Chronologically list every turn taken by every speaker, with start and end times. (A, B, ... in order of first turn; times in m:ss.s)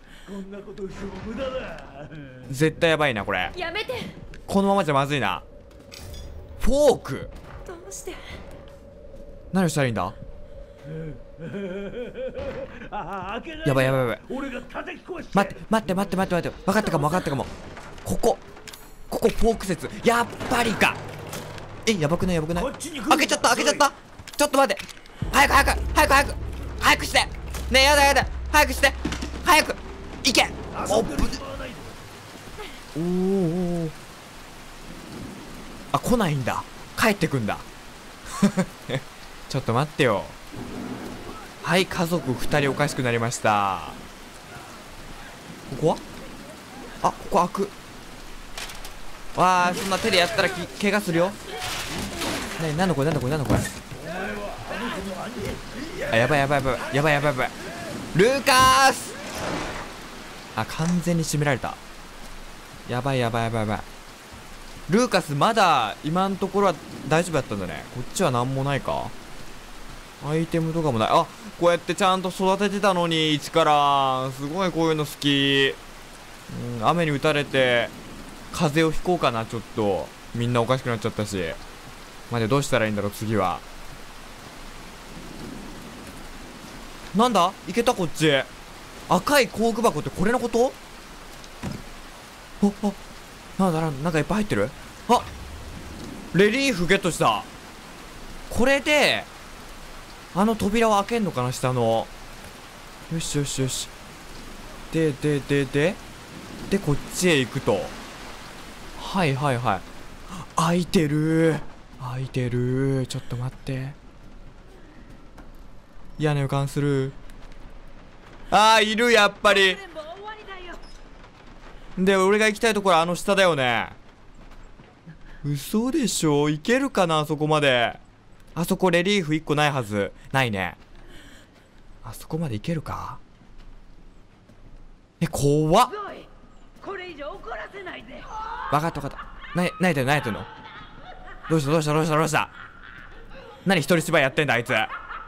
0:00.2-0:02.4 A
0:02.5-0:03.6 B
0:03.5-0:04.2 C
0:04.5-0:05.5 B
0:06.6-0:07.3 B
0:07.7-0:08.2 C
0:09.5-0:10.2 B
0:10.9-0:15.8 A
0:13.6-0:14.2 B
0:15.3-0:17.5 B
0:16.8-0:17.4 C
0:18.0-0:18.4 B
0:19.1-0:21.0 B
0:21.9-0:31.4 B
0:22.6-0:23.9 A
0:30.7-0:32.0 A
0:33.0-0:34.0 B
0:35.9-0:37.7 B
0:38.3-0:40.4 B
0:41.6-0:44.0 B
0:45.7-0:46.0 B
0:47.0-0:47.8 B
0:49.4-0:51.4 B
0:52.6-0:53.8 B
0:54.0-0:56.4 A
0:56.1-0:57.5 B
0:58.1-0:59.2 B
1:00.6-1:01.8 B
1:02.9-1:03.9 B
1:04.9-1:09.1 B
1:10.2-1:15.8 B
1:16.5-1:17.9 B
1:18.5-1:21.6 B
1:22.3-1:23.6 B
1:27.1-1:28.5 B
1:29.1-1:30.8 B
1:32.6-1:33.0 B
1:33.6-1:35.3 B
1:36.3-1:37.5 B
1:38.5-1:39.3 B
1:40.3-1:42.1 B
1:43.1-1:43.9 B
1:44.9-1:46.0 B
1:46.7-1:48.0 B
1:49.0-1:54.0 B
1:56.2-1:57.2 B
1:58.5-1:59.8 B
1:59.8-2:00.8 D
2:02.0-2:04.0 B
2:05.4-2:08.0 B
2:08.6-2:10.8 B
2:12.0-2:13.2 B
2:15.2-2:15.9 B
2:16.0-2:16.3 D
2:16.8-2:18.4 D
2:18.7-2:20.5 B
2:21.5-2:22.5 B
2:23.6-2:24.9 B